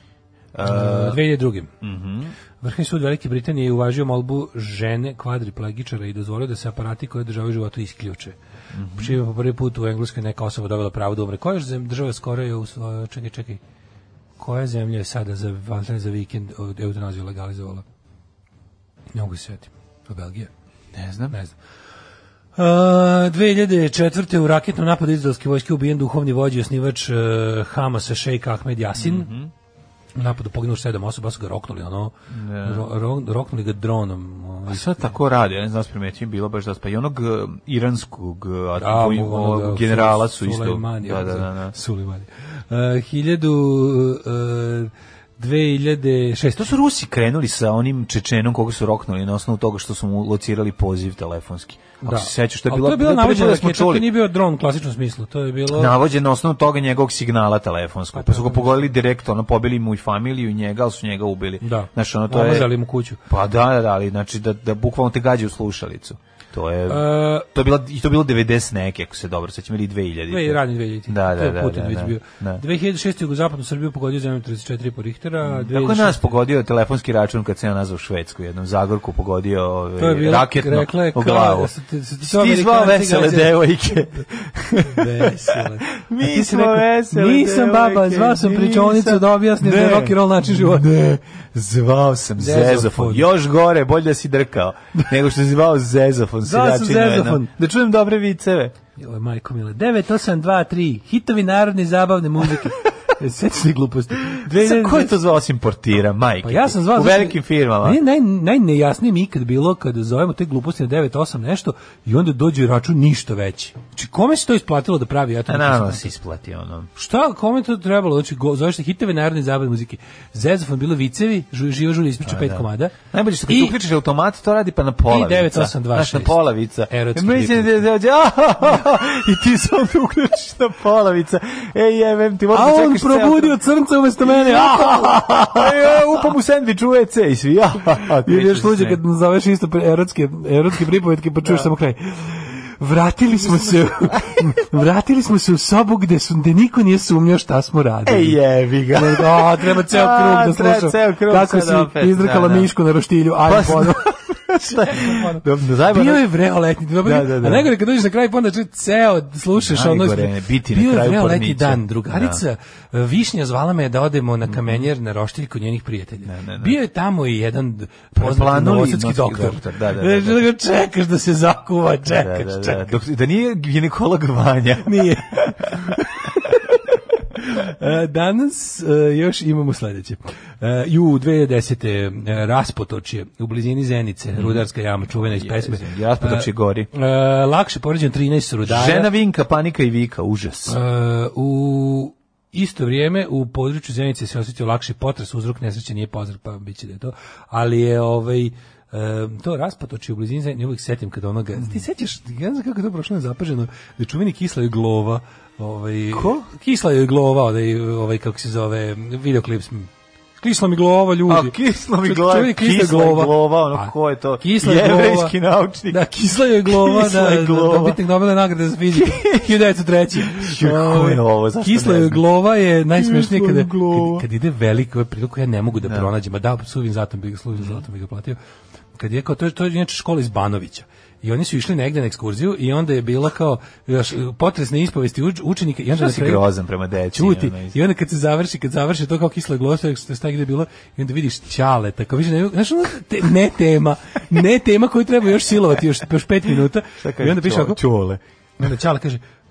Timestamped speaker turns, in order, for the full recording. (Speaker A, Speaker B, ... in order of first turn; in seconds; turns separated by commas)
Speaker A: 0.5-1.2, Speaker B: 0.6-1.7, Speaker A: 1.8-2.3, Speaker B: 2.6-8.4, Speaker A: 8.7-9.2, Speaker B: 9.0-13.6, Speaker B: 14.4-17.8, Speaker B: 19.1-20.5, Speaker A: 20.9-21.4, Speaker B: 22.6-29.3, Speaker A: 28.9-29.5, Speaker B: 30.1-35.1, Speaker A: 32.3-32.9, Speaker A: 34.7-41.7, Speaker B: 38.8-46.7, Speaker A: 46.5-54.1, Speaker B: 52.0-56.0, Speaker A: 55.7-62.7, Speaker B: 58.1-58.9, Speaker B: 61.6-63.2, Speaker A: 63.3-72.6, Speaker B: 66.9-67.5, Speaker B: 70.3-76.3, Speaker A: 75.4-98.7, Speaker B: 80.0-83.6, Speaker B: 84.8-90.9, Speaker B: 92.4-93.3, Speaker B: 96.4-97.5, Speaker B: 99.0-105.2, Speaker A: 104.4-108.0, Speaker B: 106.4-116.1, Speaker A: 115.5-116.9, Speaker B: 117.0-123.0, Speaker A: 122.2-133.5, Speaker B: 123.5-123.8, Speaker B: 125.1-126.4, Speaker B: 126.9-127.8, Speaker B: 132.5-136.0, Speaker A: 134.2-139.0, Speaker B: 138.2-148.4, Speaker A: 143.4-144.4, Speaker A: 148.1-152.7, Speaker B: 148.9-172.9, Speaker A: 153.4-156.2, Speaker A: 157.0-157.7, Speaker A: 159.6-162.4, Speaker A: 164.5-164.8, Speaker A: 166.2-166.8, Speaker A: 168.2-170.5, Speaker A: 172.1-175.7, Speaker B: 174.8-176.6, Speaker B: 177.3-189.1, Speaker A: 184.3-186.9, Speaker A: 188.7-190.8, Speaker B: 190.7-215.3, Speaker A: 206.1-206.4, Speaker A: 211.3-216.1, Speaker B: 215.9-228.4, Speaker A: 216.6-218.0, Speaker A: 218.9-219.4, Speaker A: 220.2-222.2, Speaker A: 222.9-224.2, Speaker A: 225.8-226.1, Speaker A: 227.6-227.8, Speaker B: 228.9-236.4, Speaker A: 236.0-237.8, Speaker B: 237.1-247.8, Speaker A: 247.0-248.2, Speaker B: 248.6-249.2